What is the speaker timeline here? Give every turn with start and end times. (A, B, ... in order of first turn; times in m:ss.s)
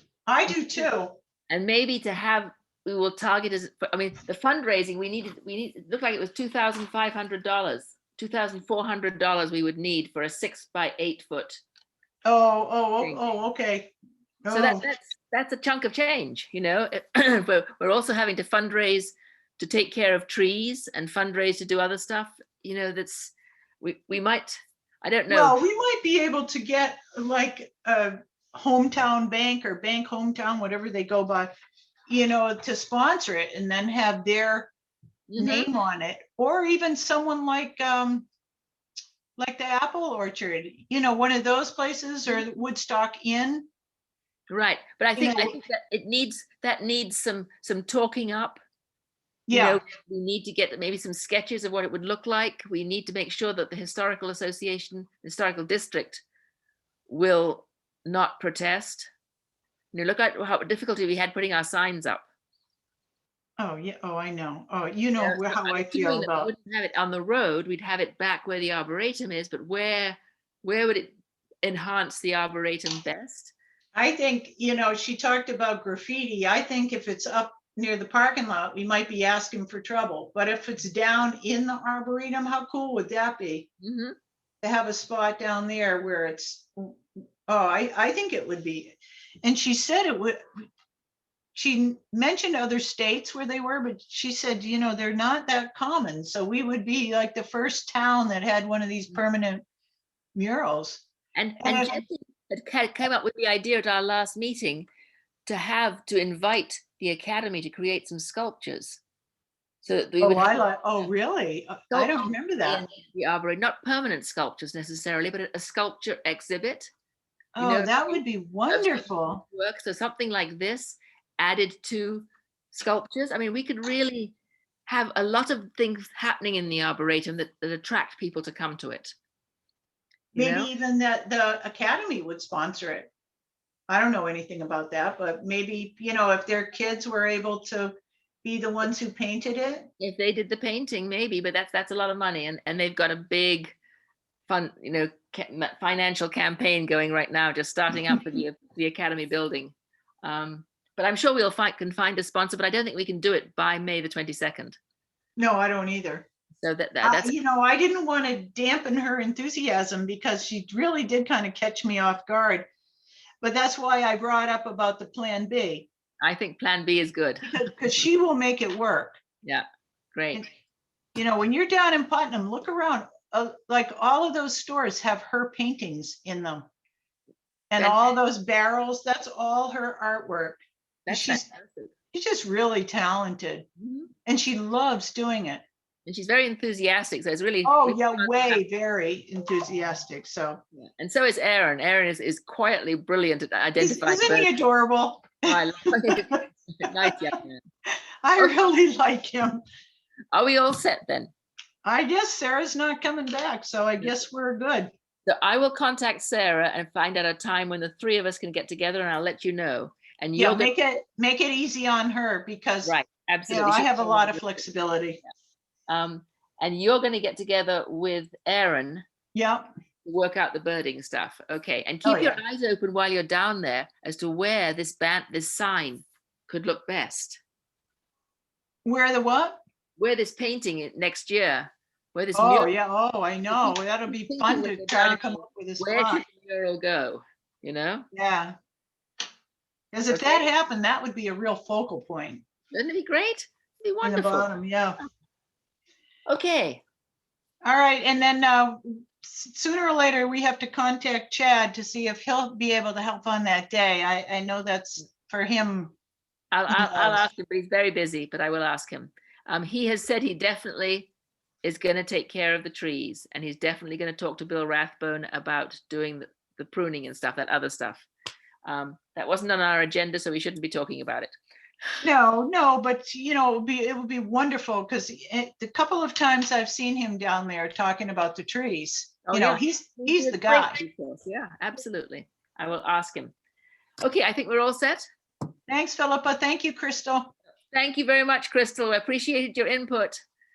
0:00.3-0:01.2 A
0:00.5-0:00.9 B
0:01.5-0:11.6 B
0:12.2-0:13.9 A
0:14.4-0:14.8 A
0:14.5-0:25.6 B
0:25.3-0:31.5 A
0:32.1-0:34.7 A
0:35.3-0:35.7 B
0:35.4-0:38.3 A
0:39.4-0:43.7 A
0:44.5-0:48.6 B
0:45.2-0:45.6 A
0:49.5-0:49.8 A
0:49.5-0:56.2 B
0:57.1-0:59.1 B
0:59.9-1:02.2 B
1:03.6-1:06.5 A
1:05.2-1:13.5 B
1:14.0-1:23.7 A
1:23.8-1:24.2 B
1:24.6-1:30.7 A
1:31.6-1:39.6 A
1:40.4-1:41.1 A
1:41.4-1:44.9 B
1:41.6-1:42.1 A
1:45.5-1:49.0 B
1:49.8-1:50.7 B
1:50.2-1:52.8 A
1:51.9-1:56.9 B
1:57.6-1:59.4 A
1:57.6-2:04.4 B
2:04.9-2:09.2 B
2:10.4-2:13.1 A
2:10.4-2:10.7 B
2:13.9-2:17.9 A
2:18.4-2:19.9 A
2:20.0-2:23.8 B
2:24.5-2:34.8 B
2:35.4-2:36.3 A
2:36.6-2:37.4 B
2:37.0-2:42.7 A
2:43.4-2:45.9 A
2:46.2-2:48.0 B
2:47.4-2:49.2 A
2:49.4-2:50.5 B
2:51.2-2:56.7 A
2:57.7-3:01.4 A
2:57.8-2:58.2 B
3:01.1-3:01.9 B
3:02.1-3:03.7 A
3:03.8-3:04.1 B
3:04.3-3:05.6 A
3:06.1-3:08.6 B
3:07.6-3:10.6 A
3:10.8-3:14.6 B
3:13.8-3:17.1 A
3:15.5-3:17.6 B
3:18.2-3:19.6 A
3:20.3-3:21.3 B
3:21.8-3:24.9 A
3:25.3-3:30.7 B
3:30.4-3:33.0 A
3:32.8-3:34.6 B
3:33.5-3:35.2 A
3:35.9-3:39.0 B
3:39.4-3:39.7 A
3:40.0-3:47.4 B
3:42.0-3:42.4 A
3:48.8-3:49.6 A
3:50.0-3:52.7 B
3:52.3-3:56.2 A
3:53.5-3:58.1 B
3:58.1-3:58.6 A
3:59.9-4:02.4 A
4:00.1-4:00.5 B
4:02.7-4:04.5 B
4:04.0-4:05.0 A
4:06.3-4:06.8 B
4:07.6-4:16.0 A
4:16.5-4:21.1 B
4:16.7-4:17.3 A
4:21.6-4:28.1 B
4:28.6-4:31.3 B
4:32.0-4:40.8 A
4:39.3-4:43.3 B
4:44.0-4:45.0 B
4:45.7-4:47.3 A
4:47.7-4:50.2 B